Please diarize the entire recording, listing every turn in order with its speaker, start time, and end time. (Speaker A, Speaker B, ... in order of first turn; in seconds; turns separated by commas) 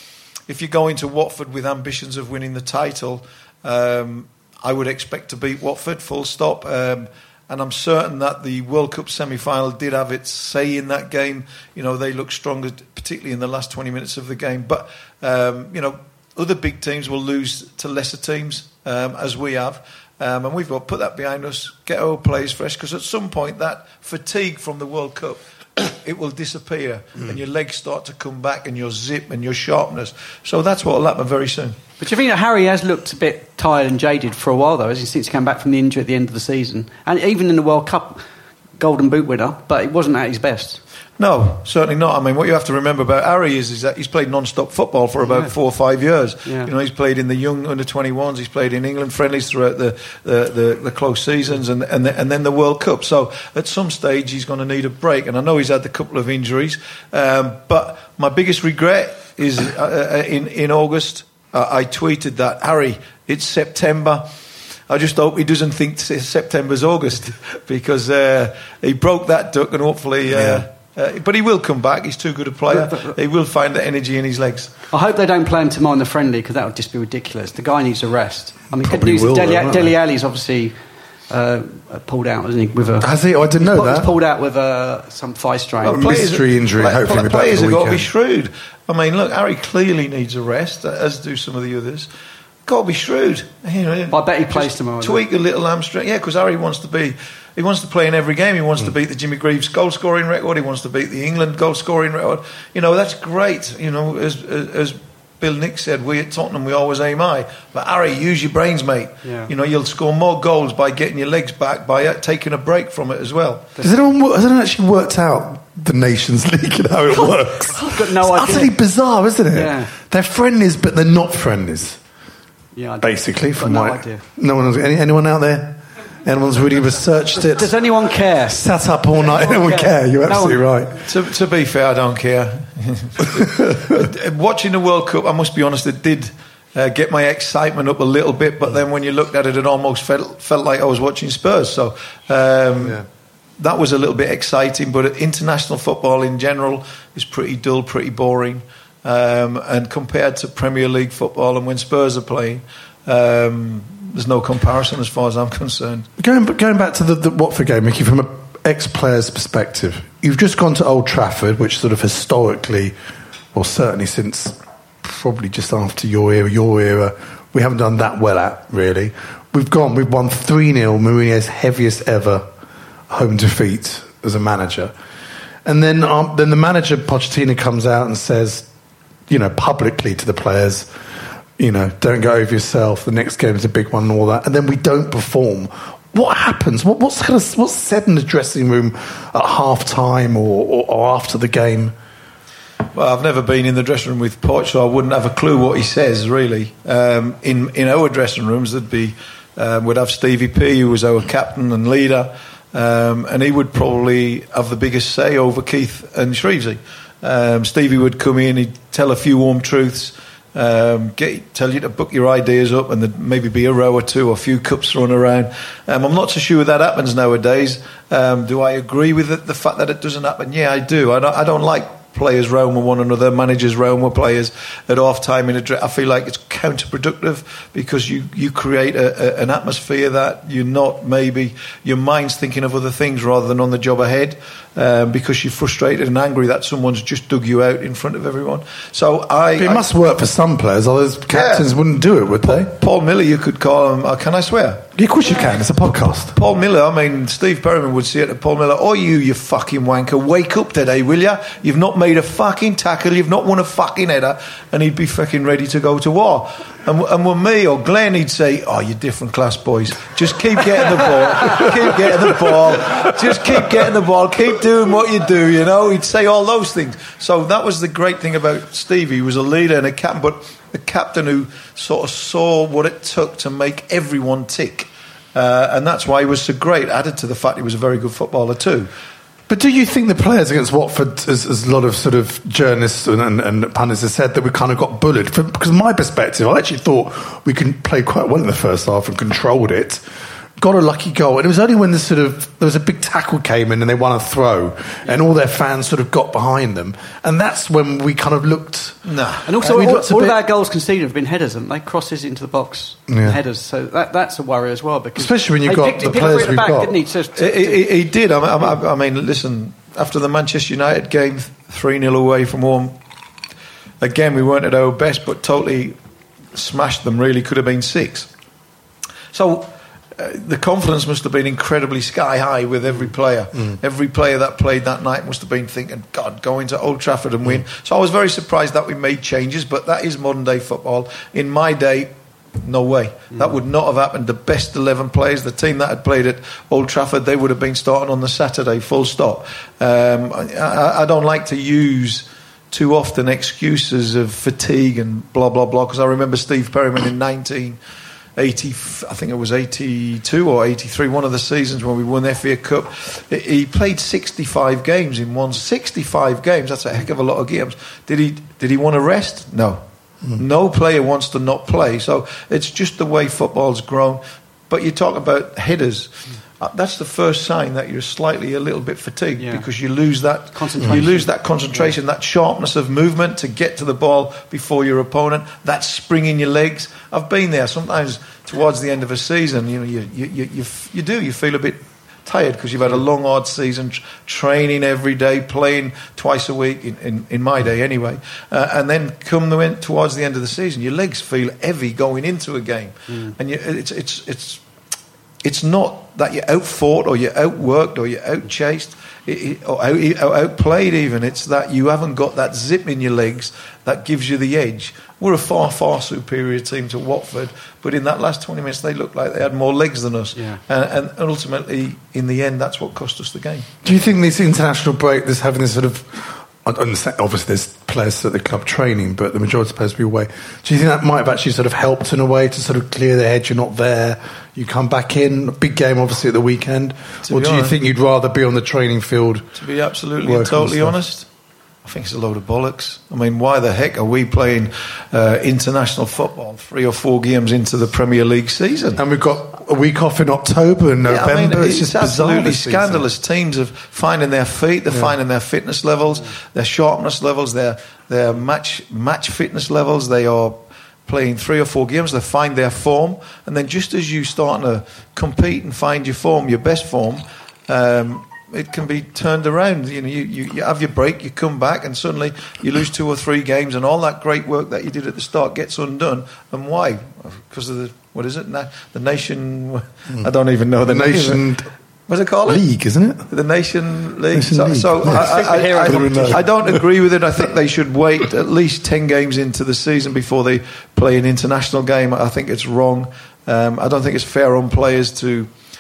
Speaker A: 0.5-31.8, Speaker B: 32.0-38.3, Speaker B: 38.8-40.8, Speaker A: 41.2-64.3, Speaker B: 45.2-45.5, Speaker B: 46.5-46.7, Speaker A: 64.9-74.7, Speaker C: 70.3-70.7, Speaker B: 72.7-73.2, Speaker B: 74.9-80.8, Speaker C: 78.8-80.0, Speaker B: 81.3-86.2, Speaker C: 83.0-84.1, Speaker A: 85.8-92.1, Speaker C: 85.9-88.1, Speaker A: 92.7-113.7, Speaker B: 94.1-95.2, Speaker B: 109.2-109.5, Speaker C: 113.8-122.0, Speaker B: 117.7-118.8, Speaker B: 119.5-119.9, Speaker B: 122.8-124.2, Speaker C: 123.0-127.8, Speaker B: 127.5-130.7, Speaker C: 128.5-131.1, Speaker A: 131.1-143.1, Speaker C: 133.3-133.9, Speaker C: 142.8-143.1, Speaker A: 143.6-156.1, Speaker C: 156.2-163.0, Speaker C: 163.5-172.5, Speaker C: 173.1-174.9, Speaker C: 175.7-178.7, Speaker C: 179.3-180.9, Speaker C: 181.6-191.9, Speaker A: 192.9-239.9, Speaker C: 239.6-242.7, Speaker A: 241.3-241.7, Speaker A: 242.4-245.7, Speaker C: 244.9-246.3, Speaker A: 246.3-278.9, Speaker B: 263.0-263.7, Speaker C: 279.5-290.0, Speaker C: 290.6-300.4, Speaker A: 299.1-300.0, Speaker B: 299.5-307.9, Speaker C: 303.1-303.4, Speaker C: 305.2-306.9, Speaker A: 307.4-313.0, Speaker A: 314.0-316.0, Speaker A: 316.5-318.3, Speaker A: 319.3-347.8, Speaker A: 348.4-359.8, Speaker A: 360.3-394.6, Speaker B: 369.4-369.7, Speaker B: 370.5-372.0, Speaker C: 370.8-371.1, Speaker B: 393.1-393.4, Speaker A: 395.4-413.7, Speaker B: 410.4-410.6, Speaker C: 413.8-429.6, Speaker A: 427.2-427.8, Speaker A: 429.6-431.3, Speaker C: 430.2-431.0, Speaker A: 431.8-439.0, Speaker C: 439.0-443.1, Speaker A: 441.1-471.5, Speaker C: 444.9-445.1, Speaker C: 470.8-471.7, Speaker A: 472.1-472.6, Speaker C: 472.5-473.3, Speaker A: 473.3-485.5, Speaker C: 474.3-476.9, Speaker B: 475.0-476.5